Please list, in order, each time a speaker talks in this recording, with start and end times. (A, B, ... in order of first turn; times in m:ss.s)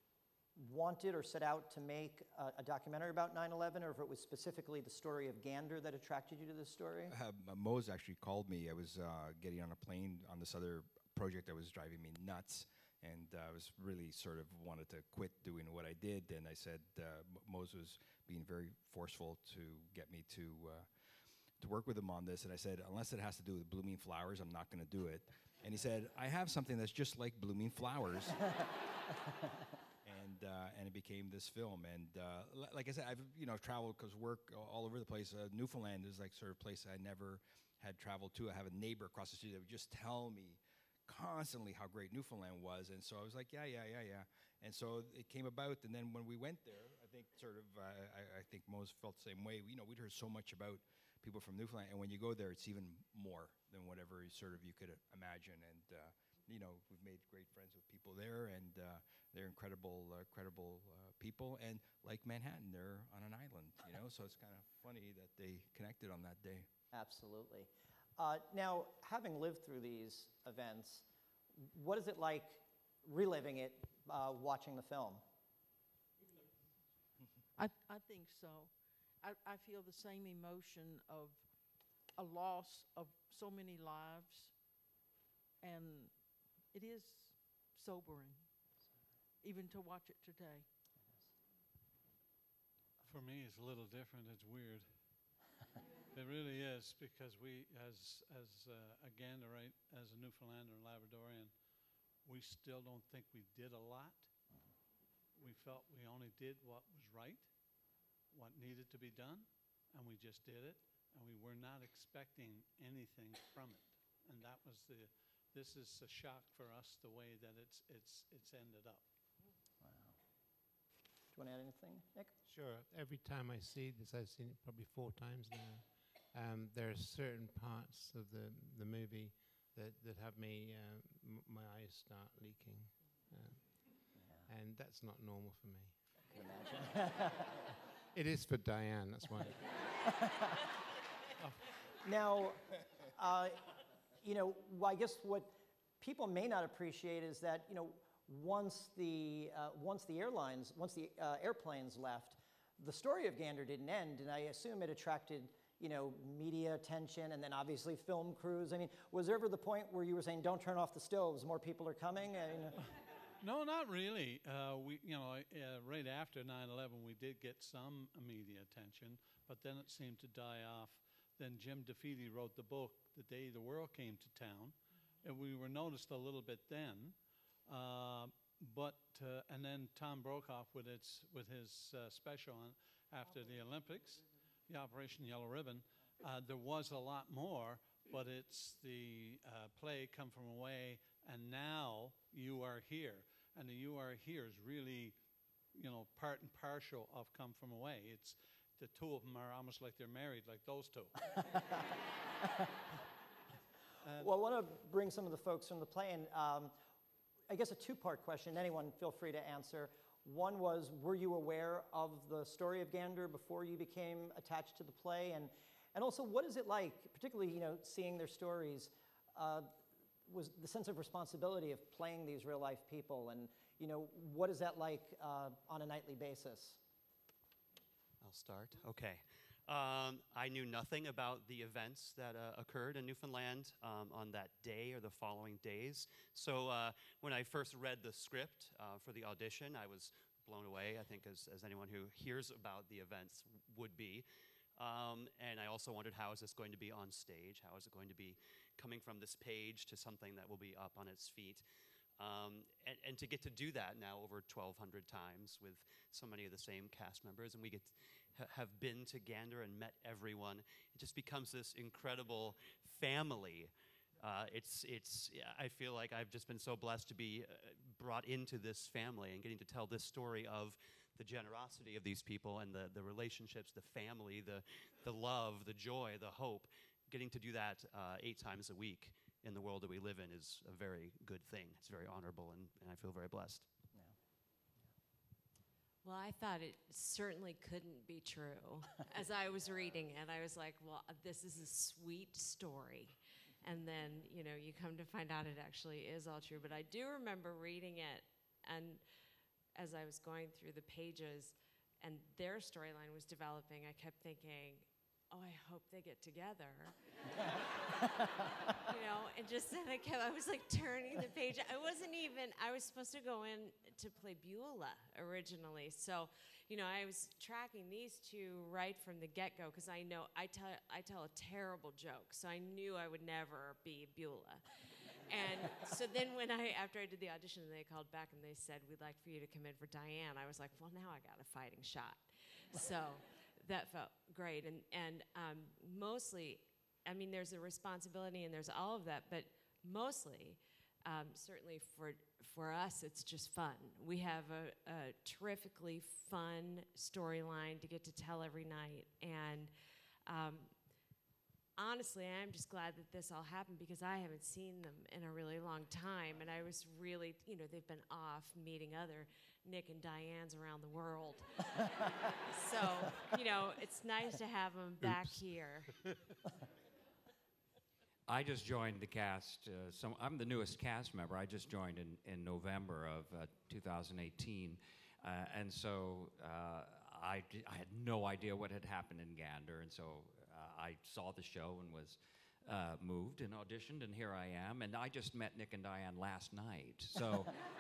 0:00.6-0:07.1 A
0:07.1-0:20.9 B
0:21.6-0:28.6 B
0:30.0-1:06.7 B
1:06.9-1:11.0 A
1:11.6-1:15.2 A
1:17.5-1:21.5 C
1:22.0-1:24.5 C
1:25.6-1:28.5 C
1:29.4-1:30.7 C
1:33.0-1:34.8 D
1:36.1-1:41.5 D
1:42.2-1:44.3 D
1:45.4-1:47.5 D
1:48.3-1:59.0 D
1:59.8-2:00.2 A
2:01.3-2:02.3 A
2:02.4-2:16.0 E
2:16.5-2:17.6 A
2:18.1-2:19.7 E
2:20.1-2:20.6 A
2:22.0-2:23.7 A
2:24.2-2:42.8 A
2:43.4-3:15.2 D
3:15.7-3:21.2 D
3:21.3-3:21.9 A
3:22.4-3:22.7 A
3:24.0-3:24.3 D
3:24.2-3:26.8 A
3:27.5-3:46.8 A
3:48.2-4:11.6 F
4:12.2-4:43.7 F
4:46.0-4:59.0 G
4:59.8-5:24.6 G
5:25.3-5:49.7 G
5:50.3-5:50.7 G
5:51.8-6:05.9 G
6:05.0-6:05.4 E
6:08.3-6:27.5 H